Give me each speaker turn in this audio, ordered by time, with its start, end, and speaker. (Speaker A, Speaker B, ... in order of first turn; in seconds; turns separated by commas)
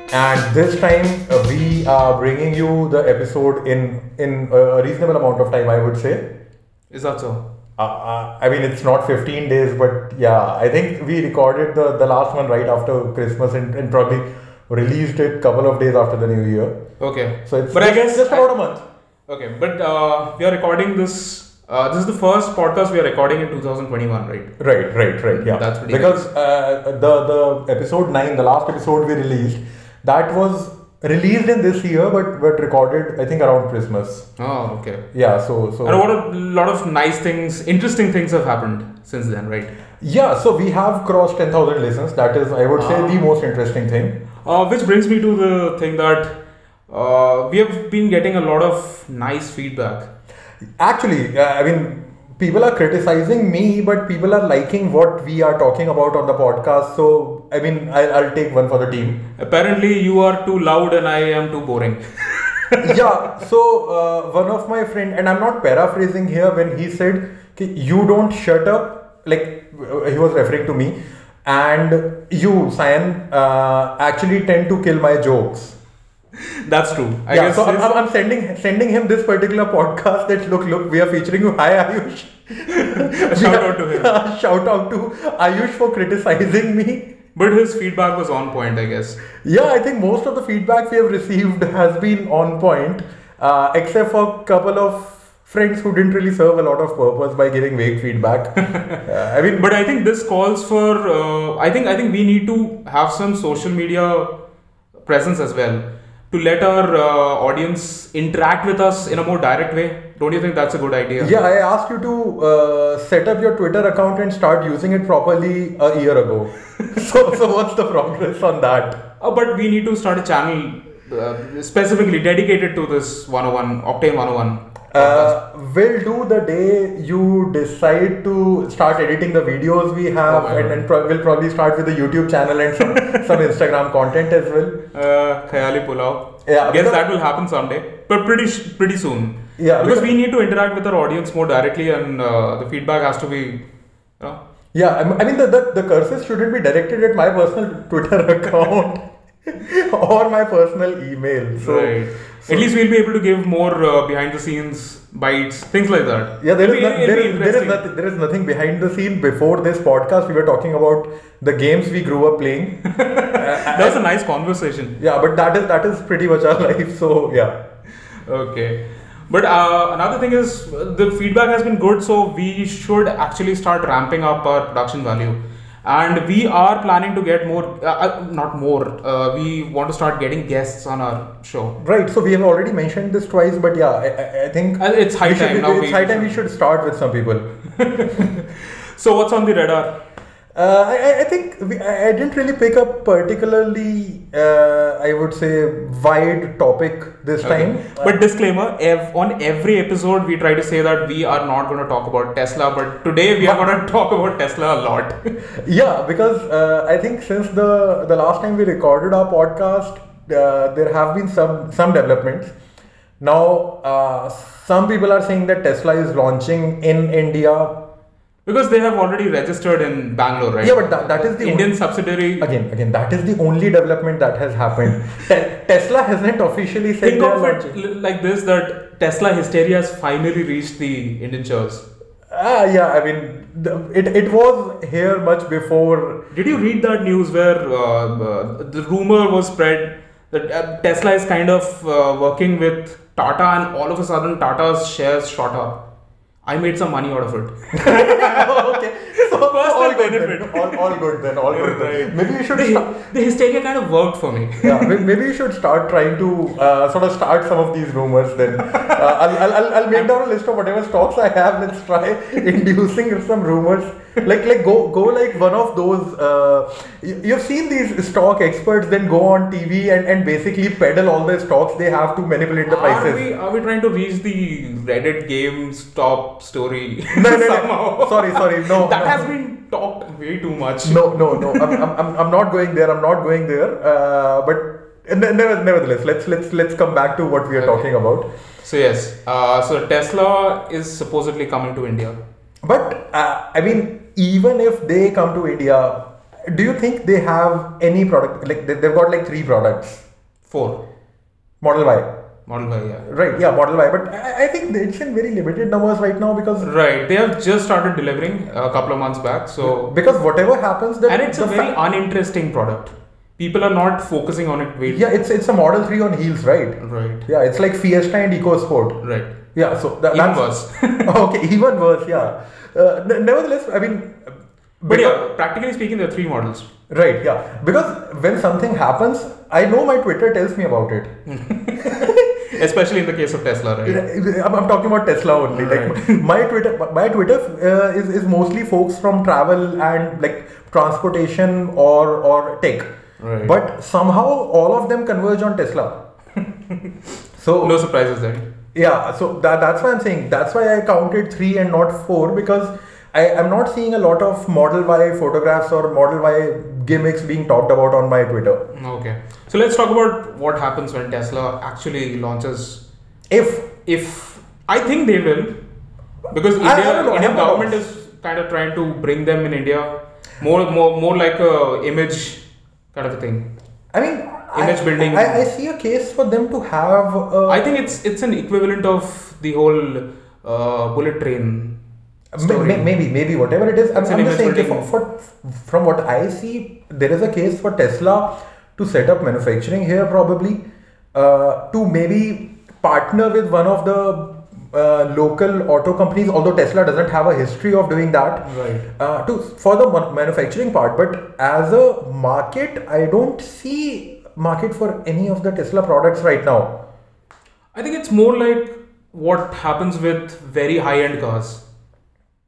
Speaker A: 0.1-6.2, Speaker B: 6.9-7.4, Speaker A: 7.8-16.8, Speaker B: 17.0-18.5, Speaker A: 17.4-18.8, Speaker B: 19.3-24.5, Speaker A: 24.6-34.3, Speaker B: 25.3-26.2, Speaker B: 34.4-35.0, Speaker A: 35.1-36.0, Speaker B: 35.8-39.7, Speaker A: 40.0-44.2, Speaker B: 42.8-43.2, Speaker B: 44.4-46.3, Speaker B: 46.9-50.1, Speaker A: 50.8-59.2, Speaker B: 59.4-63.0, Speaker A: 62.8-75.8, Speaker B: 76.7-77.9, Speaker A: 77.3-87.1, Speaker B: 82.7-84.1, Speaker B: 87.3-89.2, Speaker A: 89.4-99.7, Speaker B: 98.6-104.3, Speaker B: 105.0-111.3, Speaker A: 111.2-119.0, Speaker B: 119.2-125.3, Speaker A: 124.9-134.7, Speaker B: 130.2-130.8, Speaker B: 132.8-133.4, Speaker B: 134.9-143.6, Speaker A: 136.4-137.0, Speaker A: 139.6-140.1, Speaker A: 144.7-152.7, Speaker B: 151.6-157.8, Speaker A: 156.4-162.8, Speaker B: 162.9-164.9, Speaker A: 163.3-164.0, Speaker A: 165.0-167.5, Speaker B: 168.2-181.7, Speaker A: 181.8-187.4, Speaker B: 184.8-186.4, Speaker B: 187.7-189.9, Speaker A: 190.5-198.1, Speaker B: 197.4-205.2, Speaker A: 205.5-212.5, Speaker A: 213.2-217.7, Speaker B: 218.4-222.5, Speaker A: 220.6-221.7, Speaker A: 222.4-227.7, Speaker B: 227.0-231.8, Speaker A: 232.3-236.2, Speaker B: 236.3-245.8, Speaker B: 246.4-250.9, Speaker A: 247.7-252.9, Speaker B: 251.5-255.0, Speaker A: 254.6-273.2, Speaker B: 272.7-281.8, Speaker A: 277.1-279.3, Speaker A: 280.8-288.3, Speaker B: 287.6-287.8, Speaker B: 288.6-292.2, Speaker A: 292.6-300.0, Speaker B: 300.5-300.8, Speaker A: 301.6-302.1, Speaker B: 302.5-303.1, Speaker A: 303.1-306.7, Speaker B: 306.6-309.9, Speaker A: 309.6-311.7, Speaker B: 311.1-315.1, Speaker A: 314.9-319.0, Speaker B: 316.8-317.2, Speaker B: 319.0-319.3, Speaker A: 319.5-320.4, Speaker B: 320.1-321.1, Speaker A: 321.0-325.2, Speaker B: 324.9-326.6, Speaker A: 326.9-331.1, Speaker B: 331.3-334.0, Speaker A: 333.8-342.9, Speaker B: 335.5-336.2, Speaker B: 343.2-343.6, Speaker A: 343.4-346.0, Speaker A: 347.4-347.8, Speaker B: 347.6-348.4, Speaker A: 348.7-358.6, Speaker B: 358.7-362.8, Speaker A: 363.3-363.7, Speaker B: 363.8-365.5, Speaker B: 366.3-372.4, Speaker A: 366.6-367.8, Speaker B: 372.9-373.4, Speaker A: 373.9-377.7, Speaker B: 374.5-375.4, Speaker B: 377.5-381.8, Speaker A: 382.3-390.6, Speaker B: 382.4-382.9, Speaker B: 383.9-384.9, Speaker A: 391.1-406.7, Speaker B: 398.4-398.8, Speaker B: 407.7-411.6